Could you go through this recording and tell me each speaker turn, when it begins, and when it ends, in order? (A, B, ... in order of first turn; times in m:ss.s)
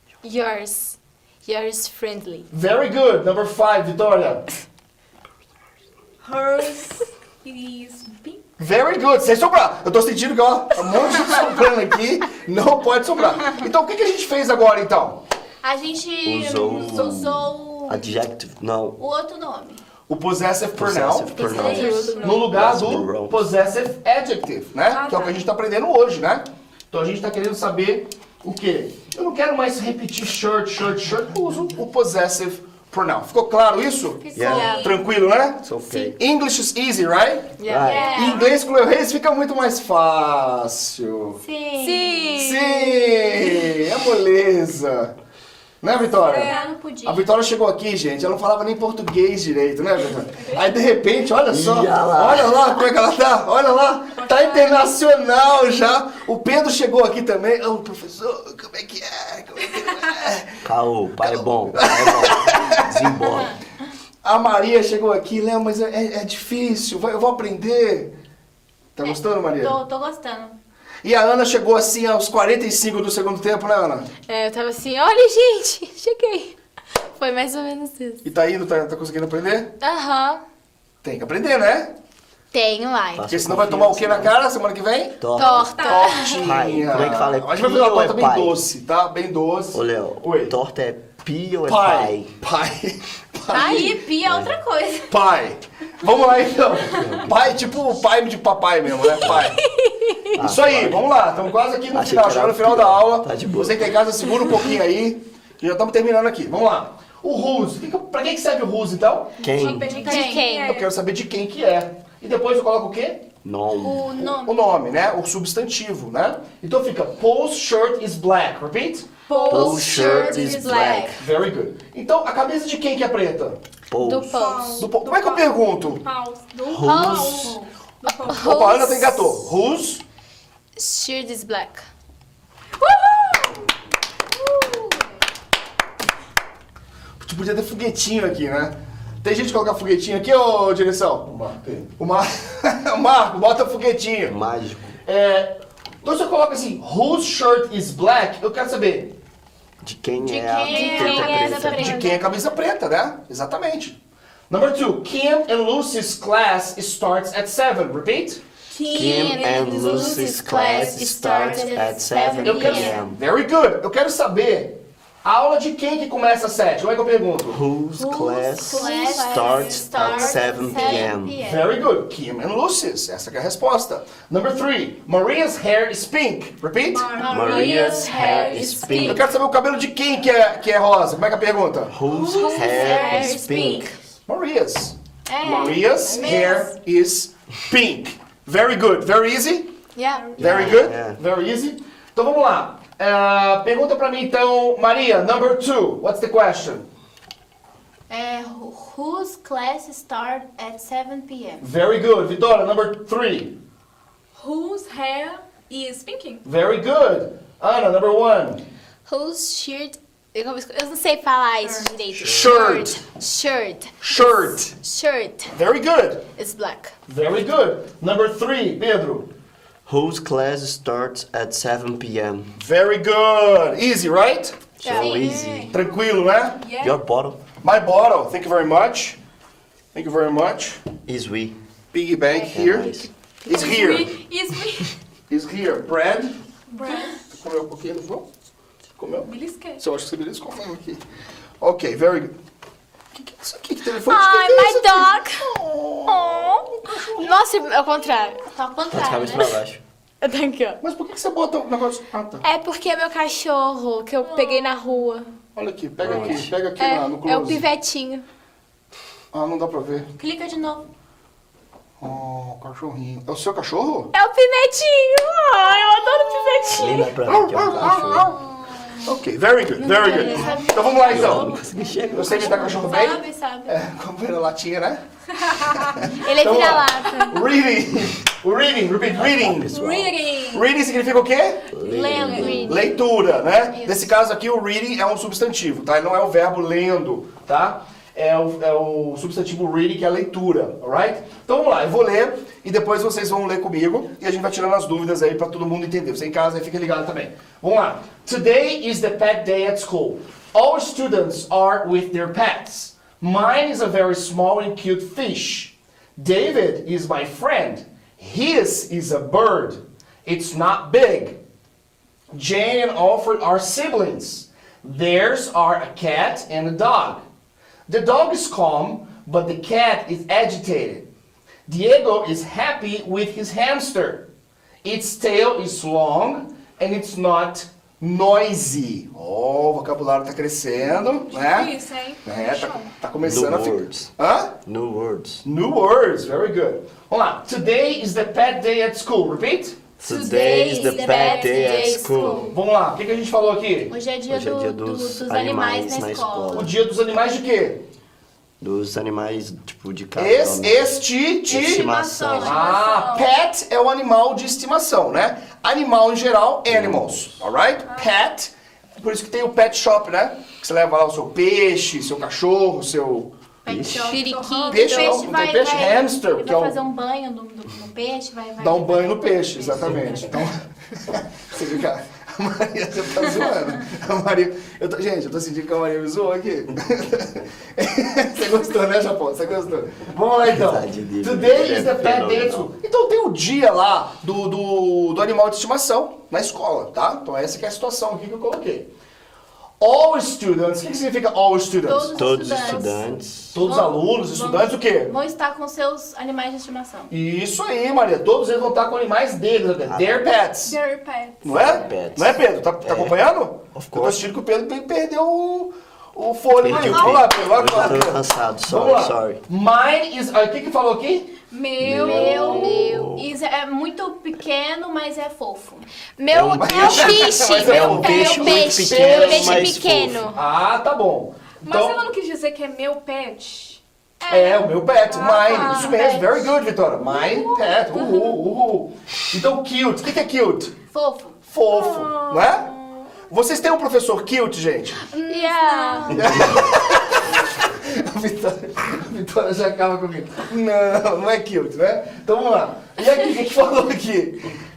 0:00.2-0:02.5 A
0:02.5-0:04.4 B
0:06.2-0:08.4 C
0:08.6-0:15.2 B
0:15.6-0:18.2 D
0:16.2-0:19.0 E
0:19.0-0:19.8 D
0:20.1-0:37.5 B
0:20.7-0:23.5 E
0:21.4-0:22.4 A
0:21.4-0:22.5 C
0:21.4-0:22.2 D
0:24.9-0:25.5 C
0:34.2-0:35.0 C
0:34.3-0:34.8 E
0:34.4-0:35.0 A
0:34.5-0:34.9 D
0:35.6-0:36.2 E
0:37.6-0:38.4 A
0:37.7-0:38.2 E
0:37.8-0:38.5 D
0:38.1-0:41.4 B
0:41.4-0:42.6 D
0:41.8-0:43.7 A
0:42.3-0:45.1 B
0:45.8-1:00.6 B
0:46.2-0:47.3 D
0:46.2-0:46.7 C
0:50.4-0:50.6 C
0:51.5-0:52.7 E
0:54.2-0:54.7 C
1:00.6-1:03.5 E
1:01.2-1:03.3 B
1:04.2-1:08.1 B
1:09.0-1:09.8 B
1:09.0-1:10.6 D
1:11.0-1:14.1 B
1:14.3-1:16.5 A
1:17.1-1:18.2 A
1:18.2-1:19.7 B
1:19.8-1:20.4 A
1:21.0-1:21.9 B
1:22.5-1:23.3 A
1:23.1-1:24.4 E
1:23.3-1:25.3 B
1:25.2-1:28.6 E
1:25.4-1:26.4 A
1:25.4-1:26.1 D
1:25.4-1:26.4 C
1:25.8-1:30.5 B
1:29.7-1:32.3 E
1:31.6-1:34.0 B
1:33.5-1:35.1 D
1:33.5-1:34.0 A
1:34.2-1:34.5 E
1:35.1-1:39.6 B
1:36.9-1:37.7 E
1:39.2-1:39.6 E
1:39.3-1:40.3 A
1:40.3-1:41.1 E
1:40.4-1:49.4 B
1:41.9-1:43.9 E
1:49.4-1:50.0 E
1:49.5-1:50.9 C
1:49.6-1:50.5 D
1:50.0-1:50.7 A
1:50.6-1:53.3 B
1:53.4-1:54.1 E
1:53.7-1:54.7 D
1:54.2-1:59.1 B
1:59.3-2:01.1 D
1:59.3-1:59.8 C
1:59.3-2:01.2 A
1:59.5-2:01.2 E
2:01.2-2:03.6 B
2:03.9-2:04.4 E
2:04.0-2:04.9 A
2:04.1-2:08.5 C
2:04.8-2:06.0 B
2:06.6-2:07.6 E
2:06.8-2:09.4 A
2:08.3-2:10.0 B
2:10.8-2:11.8 A
2:12.8-2:13.7 C
2:14.3-2:15.2 C
2:17.2-2:24.4 B
2:24.2-2:25.0 E
2:25.0-2:29.1 B
2:29.8-2:32.1 E
2:30.2-2:32.3 D
2:30.7-2:31.5 C
2:30.7-2:31.6 A
2:31.7-2:34.0 B
2:34.5-2:38.4 B
2:38.7-2:40.9 C
2:38.8-2:42.9 A
2:38.9-2:43.2 E
2:39.7-2:43.0 D
2:42.4-2:47.6 B
2:47.5-2:51.4 E
2:48.0-2:51.7 D
2:48.7-2:50.1 C
2:48.8-2:51.0 A
2:51.4-2:57.2 B
2:56.9-2:59.1 C
2:57.1-2:59.2 D
2:57.2-2:59.3 E
2:59.0-3:01.9 B
3:01.9-3:03.9 E
3:02.1-3:03.8 D
3:02.3-3:03.9 A
3:04.3-3:09.7 B
3:05.3-3:06.8 D
3:06.2-3:06.6 C
3:09.9-3:10.4 A
3:10.3-3:10.7 D
3:10.4-3:16.8 B
3:10.4-3:11.2 E
3:18.1-3:21.6 D
3:21.6-3:23.5 B
3:24.3-3:26.4 C
3:26.4-3:28.6 B
3:29.0-3:35.5 A
3:31.6-3:32.0 D
3:32.1-3:33.1 B
3:34.0-3:34.8 B
3:35.5-3:36.2 B
3:36.4-3:36.9 A
3:37.1-3:39.3 B
3:39.8-3:42.5 E
3:42.6-3:44.6 B
3:44.8-3:45.8 E
3:44.8-3:45.7 A
3:45.0-3:45.4 D
3:45.7-3:46.6 B
3:46.6-3:47.0 C
3:46.8-3:47.4 E
3:47.6-3:49.2 B
3:49.9-3:50.8 B
3:51.0-3:51.6 E
3:51.9-3:54.2 B
3:52.5-3:53.1 E
3:53.5-3:54.9 C
3:55.3-3:56.4 B
3:56.7-3:57.2 C
3:57.3-3:58.2 B
3:59.0-3:59.3 B
3:59.2-3:59.8 C
3:59.8-4:01.0 B
4:01.6-4:02.3 B
4:03.1-4:07.4 B
4:04.0-4:05.5 A
4:06.1-4:08.4 A
4:08.4-4:09.6 D
4:08.9-4:09.8 E
4:10.2-4:10.8 A
4:10.8-4:12.4 B
4:12.4-4:15.3 A
4:14.3-4:14.7 C
4:15.5-4:17.6 B
4:16.0-4:16.5 E
4:16.2-4:18.2 A
4:19.3-4:20.1 B
4:20.2-4:20.8 D
4:22.0-4:24.1 B
4:24.1-4:27.2 A
4:26.7-4:28.4 E
4:27.2-4:28.4 B
4:29.0-4:31.5 B
4:29.8-4:33.8 D
4:30.1-4:30.6 C
4:31.1-4:32.6 E
4:31.7-4:33.0 C
4:32.1-4:39.7 B
4:35.7-4:35.9 C
4:36.2-4:37.5 A
4:39.1-4:40.2 E
4:39.7-4:40.7 C
4:40.5-4:41.6 B
4:41.7-4:42.8 E
4:41.8-4:43.0 D
4:42.3-4:42.8 A
4:42.4-5:11.4 B
4:43.7-4:44.1 D
5:12.3-5:17.2 B
5:17.9-5:21.1 B
5:21.7-5:24.3 B
5:24.8-5:31.7 B
5:30.7-5:32.9 C
5:32.2-5:34.5 B
5:33.2-5:35.4 E
5:35.4-5:39.8 B
5:40.0-5:42.6 E
5:40.0-5:42.6 D
5:40.5-5:42.3 A
5:42.5-5:43.9 B
5:43.9-5:46.7 D
5:44.3-5:46.7 E
5:46.5-5:47.8 B
5:48.6-5:52.6 E
5:50.2-6:03.3 B
5:51.6-5:52.9 D
5:52.4-5:53.3 C
5:56.7-5:57.4 E
5:57.9-5:58.2 C
6:03.6-6:10.4 D
6:03.6-6:04.2 E
6:04.0-6:05.2 A
6:04.3-6:05.1 C
6:04.7-6:06.8 B
6:08.6-6:28.9 B
6:20.4-6:22.7 E
6:29.8-6:32.6 B
6:31.8-6:37.1 D
6:32.1-6:33.6 E
6:33.5-6:35.1 B
6:37.1-6:40.8 B
6:39.8-6:40.2 E
6:40.6-6:41.8 C
6:41.4-6:43.2 E
6:41.4-6:51.3 B
6:43.7-6:44.2 E
6:46.5-6:49.4 E
6:46.7-6:48.0 D
6:51.5-6:52.8 C
6:51.8-6:53.3 E
6:51.8-6:55.9 D
6:52.6-6:53.1 A
6:56.2-7:00.4 A
6:56.3-7:00.3 E
6:56.6-7:02.0 B
7:01.6-7:06.2 C
7:04.3-7:10.7 B
7:05.5-7:06.2 D
7:05.5-7:06.4 A
7:07.0-7:08.4 C
7:10.9-7:11.4 D
7:11.5-7:12.7 B
7:11.7-7:13.1 C
7:13.3-7:15.0 B
7:15.1-7:16.3 C
7:15.3-7:16.2 D
7:16.1-7:24.5 B
7:16.3-7:16.6 E